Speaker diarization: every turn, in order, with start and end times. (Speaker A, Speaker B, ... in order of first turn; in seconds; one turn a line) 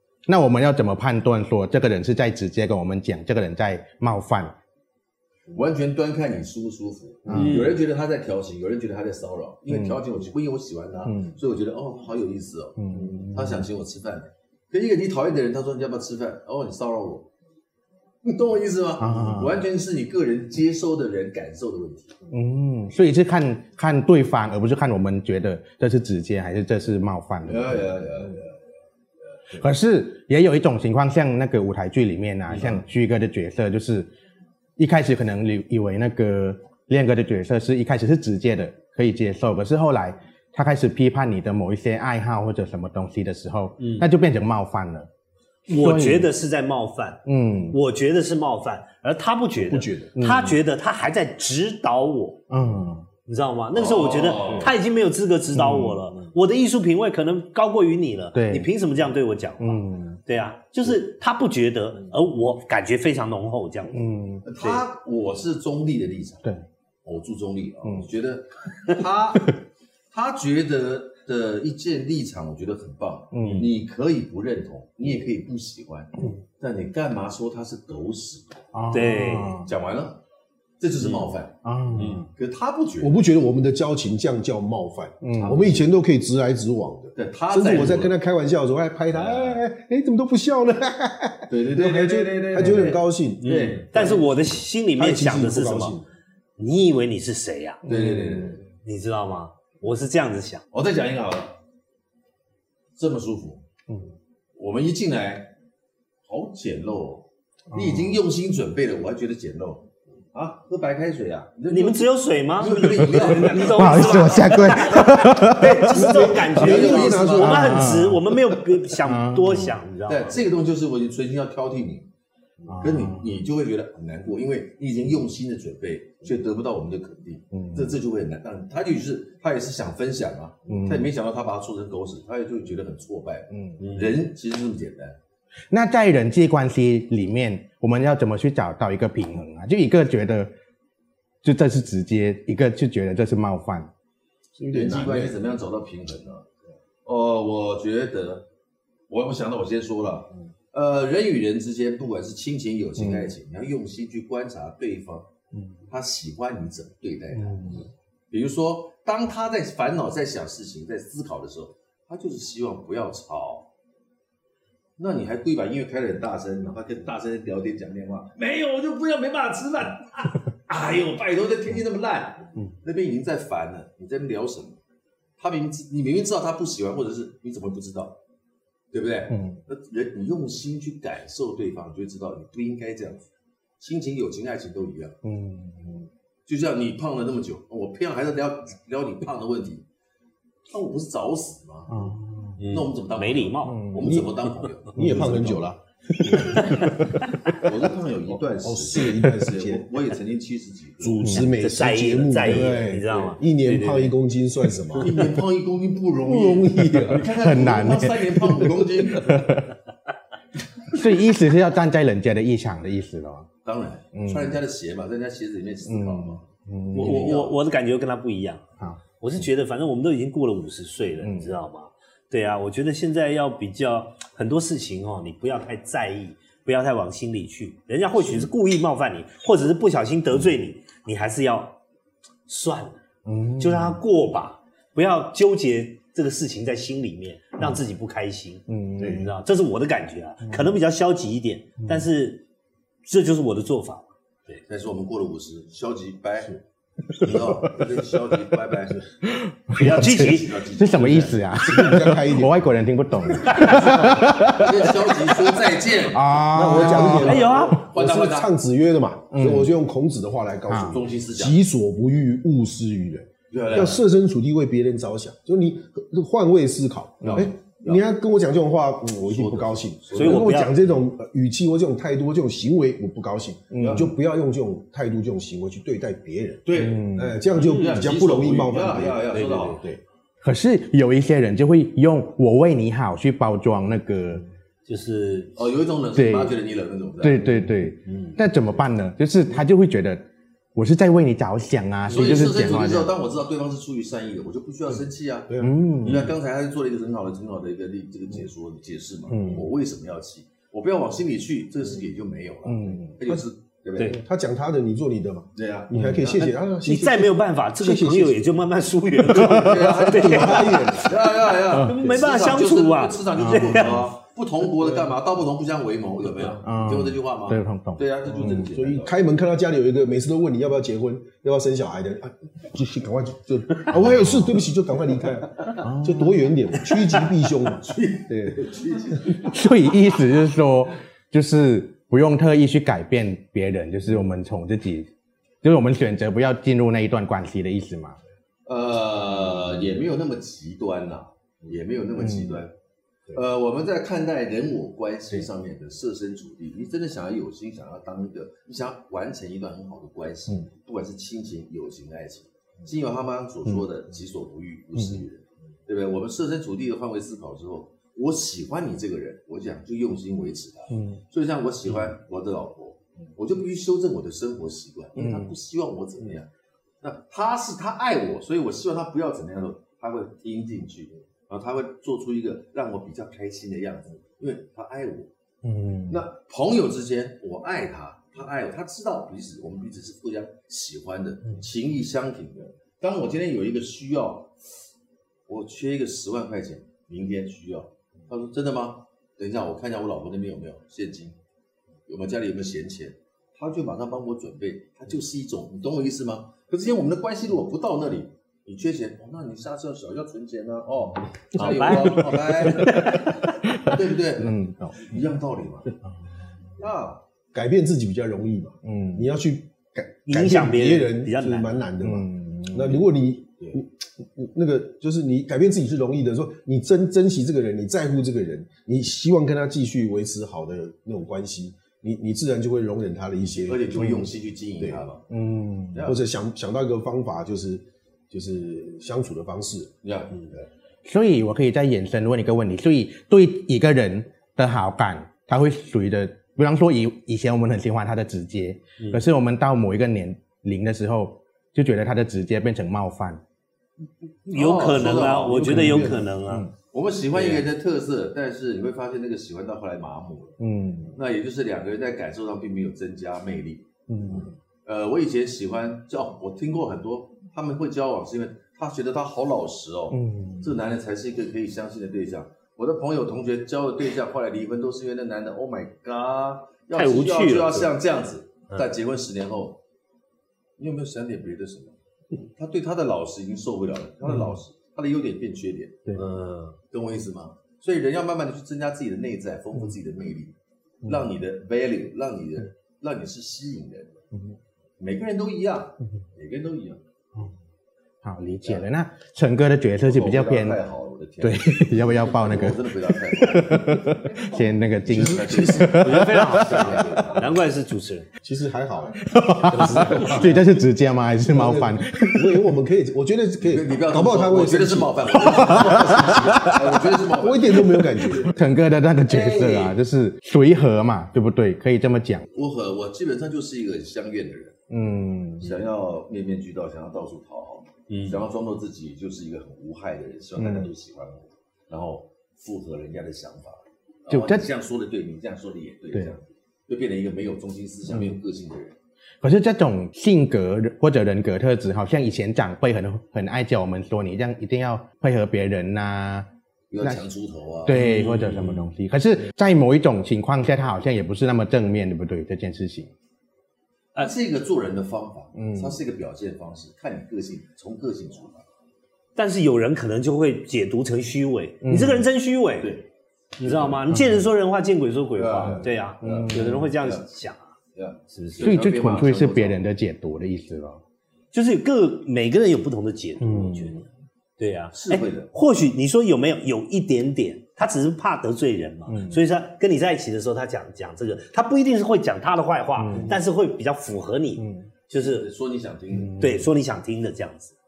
Speaker A: 0.2-4.5
Speaker B: 5.5-17.3
Speaker A: 7.2-7.6
Speaker C: 7.3-7.8
Speaker A: 11.1-11.3
Speaker A: 12.8-13.7
Speaker B: 18.2-22.2
Speaker A: 19.0-19.5
Speaker A: 22.3-27.8
Speaker B: 27.4-28.5
Speaker A: 29.5-34.1
Speaker A: 34.8-45.1
Speaker C: 43.8-44.1
Speaker C: 45.7-52.4
Speaker A: 45.7-46.3
Speaker A: 47.2-47.8
Speaker D: 49.6-50.1
Speaker A: 50.1-50.6
Speaker A: 52.5-53.1
Speaker C: 53.2-64.0
Speaker B: 53.7-54.7
Speaker D: 54.4-54.7
Speaker A: 55.5-56.0
Speaker A: 58.3-58.7
Speaker A: 59.6-60.2
Speaker A: 63.9-64.4
Speaker B: 64.4-66.4
Speaker B: 67.0-69.6
Speaker B: 70.1-78.7
Speaker A: 73.3-73.7
Speaker C: 73.4-73.7
Speaker A: 78.7-79.7
Speaker C: 78.9-79.6
Speaker B: 79.6-80.2
Speaker B: 80.8-83.2
Speaker C: 81.0-81.3
Speaker A: 81.6-82.3
Speaker C: 82.0-82.3
Speaker D: 83.0-93.5
Speaker A: 85.2-85.5
Speaker B: 85.4-85.9
Speaker B: 87.2-88.2
Speaker B: 89.1-89.6
Speaker B: 91.5-94.6
Speaker C: 93.4-96.0
Speaker D: 94.9-96.1
Speaker C: 96.6-97.8
Speaker A: 97.8-98.6
Speaker B: 97.8-98.6
Speaker C: 98.8-100.6
Speaker B: 100.7-101.6
Speaker B: 103.0-103.6
Speaker B: 104.5-105.5
Speaker B: 106.2-117.7
Speaker A: 107.7-108.2
Speaker C: 111.7-120.4
Speaker A: 113.7-115.9
Speaker D: 115.8-118.0
Speaker A: 117.4-119.8
Speaker B: 120.1-122.1
Speaker A: 122.7-123.3
Speaker B: 122.8-135.2
Speaker A: 127.5-127.9
Speaker A: 130.7-131.1
Speaker A: 133.5-133.8
Speaker C: 133.8-134.1
Speaker A: 135.7-140.5
Speaker A: 141.4-143.9
Speaker D: 144.6-145.4
Speaker B: 144.7-146.5
Speaker B: 147.0-148.5
Speaker B: 149.1-155.3
Speaker A: 153.0-153.3
Speaker B: 155.9-163.7
Speaker A: 157.4-157.8
Speaker B: 165.0-174.8
Speaker B: 175.4-178.2
Speaker B: 178.9-183.3
Speaker A: 179.3-179.6
Speaker B: 183.8-185.2
Speaker A: 185.2-186.0
Speaker B: 186.5-189.8
Speaker B: 190.7-192.0
Speaker A: 191.9-192.6
Speaker C: 192.6-193.8
Speaker B: 192.7-195.6
Speaker A: 193.7-194.1
Speaker D: 194.0-196.6
Speaker A: 194.9-195.5
Speaker A: 196.2-197.2
Speaker C: 196.5-196.9
Speaker B: 197.5-201.4
Speaker D: 198.6-199.9
Speaker D: 201.0-205.2
Speaker C: 201.1-204.1
Speaker C: 204.9-205.3
Speaker B: 205.0-209.5
Speaker D: 206.2-207.3
Speaker A: 207.3-209.7
Speaker A: 210.9-213.5
Speaker B: 213.6-216.4
Speaker A: 214.1-214.6
Speaker A: 215.9-217.3
Speaker C: 216.9-218.7
Speaker B: 216.9-217.6
Speaker C: 219.2-231.8
Speaker A: 221.2-221.5
Speaker C: 232.5-233.0
Speaker A: 233.2-234.0
Speaker C: 233.6-242.4
Speaker A: 238.7-239.3
Speaker C: 243.0-244.6
Speaker B: 244.7-246.6
Speaker A: 247.2-247.8
Speaker B: 247.2-249.1
Speaker A: 249.2-255.3
Speaker C: 249.8-250.6
Speaker B: 249.9-251.5
Speaker D: 251.6-252.7
Speaker C: 253.5-253.9
Speaker B: 253.8-258.5
Speaker A: 256.1-257.4
Speaker D: 256.5-280.0
Speaker C: 257.2-257.8
Speaker A: 259.3-259.7
Speaker A: 260.7-261.0
Speaker B: 260.9-261.6
Speaker B: 263.5-264.0
Speaker A: 267.2-267.5
Speaker B: 267.2-268.0
Speaker B: 269.2-270.7
Speaker C: 270.1-270.7
Speaker A: 273.7-274.1
Speaker B: 273.7-274.1
Speaker B: 276.6-279.8
Speaker A: 276.8-277.4
Speaker C: 277.5-278.1
Speaker C: 279.3-279.8
Speaker A: 280.4-284.4
Speaker C: 284.9-285.5
Speaker B: 285.6-287.4
Speaker A: 286.1-286.5
Speaker A: 287.2-290.2
Speaker C: 288.1-288.3
Speaker A: 290.7-293.1
Speaker B: 292.1-304.2
Speaker D: 295.5-295.8
Speaker A: 295.6-296.3
Speaker C: 296.0-296.3
Speaker A: 299.3-299.7
Speaker A: 302.6-303.2
Speaker D: 304.1-308.4
Speaker B: 305.6-306.5
Speaker A: 305.9-306.2
Speaker C: 306.8-314.1
Speaker B: 309.2-319.2
Speaker D: 310.1-311.1
Speaker A: 311.7-312.1
Speaker A: 313.3-313.9
Speaker A: 316.6-318.6
Speaker D: 318.6-328.7
Speaker A: 323.9-324.5
Speaker A: 325.8-326.4
Speaker B: 326.9-329.5
Speaker A: 329.4-335.1
Speaker A: 335.6-338.2
Speaker B: 338.6-342.7
Speaker A: 342.2-342.6
Speaker B: 343.3-366.5
Speaker A: 360.9-361.2
Speaker A: 365.2-365.5
Speaker B: 367.0-375.3
Speaker A: 375.6-376.2
Speaker B: 376.1-384.5
Speaker B: 385.5-391.4
Speaker B: 392.1-405.9
Speaker C: 401.6-403.5
Speaker A: 402.8-403.1
Speaker A: 403.6-405.1
Speaker B: 406.8-407.2
Speaker D: 407.5-425.0
Speaker A: 408.8-409.3
Speaker C: 410.3-411.8
Speaker A: 412.0-413.0
Speaker B: 423.6-425.2
Speaker A: 425.3-426.1
Speaker B: 425.9-426.2
Speaker D: 426.0-429.9
Speaker B: 430.0-430.7
Speaker A: 431.0-443.4
Speaker C: 444.4-446.7
Speaker B: 444.5-446.2
Speaker D: 445.4-446.3
Speaker B: 446.8-450.6
Speaker C: 447.3-447.6
Speaker A: 450.6-451.1
Speaker B: 451.1-469.8
Speaker A: 454.1-454.5
Speaker A: 460.1-460.7
Speaker C: 466.9-467.9
Speaker B: 470.8-471.9
Speaker B: 472.6-476.1
Speaker A: 474.2-474.6
Speaker C: 476.1-476.8
Speaker B: 476.9-484.2
Speaker B: 485.0-487.0
Speaker A: 488.2-490.8
Speaker B: 490.1-494.1
Speaker A: 491.4-492.8
Speaker A: 493.4-497.0
Speaker B: 495.1-497.6
Speaker D: 495.1-496.1
Speaker C: 496.0-498.3
Speaker D: 498.4-500.8
Speaker A: 499.2-502.6
Speaker B: 499.9-500.5
Speaker D: 501.5-505.4
Speaker B: 503.6-508.5
Speaker A: 505.4-506.8
Speaker D: 507.3-508.5
Speaker A: 508.4-512.5
Speaker C: 509.3-509.9
Speaker B: 509.4-509.9
Speaker B: 512.5-514.8
Speaker A: 514.9-515.7
Speaker B: 515.6-528.9
Speaker C: 518.1-518.4
Speaker A: 520.6-520.9
Speaker A: 524.3-524.6
Speaker A: 529.4-536.5
Speaker B: 536.9-538.0
Speaker A: 537.8-543.1
Speaker C: 537.9-538.9
Speaker B: 544.2-548.6
Speaker A: 545.5-546.0
Speaker C: 549.4-552.9
Speaker A: 551.8-552.2
Speaker B: 552.8-553.1
Speaker C: 553.6-557.7
Speaker B: 553.6-554.0
Speaker A: 554.1-554.5
Speaker B: 555.4-557.3
Speaker A: 556.2-556.9
Speaker B: 557.9-559.8
Speaker C: 558.3-558.7
Speaker A: 558.6-561.0
Speaker C: 561.5-564.0
Speaker A: 563.4-564.0
Speaker C: 564.6-575.5
Speaker B: 564.9-565.5
Speaker A: 569.1-569.4
Speaker A: 573.0-573.4
Speaker A: 574.6-574.9
Speaker B: 575.1-576.6
Speaker A: 576.1-576.6
Speaker C: 576.4-577.7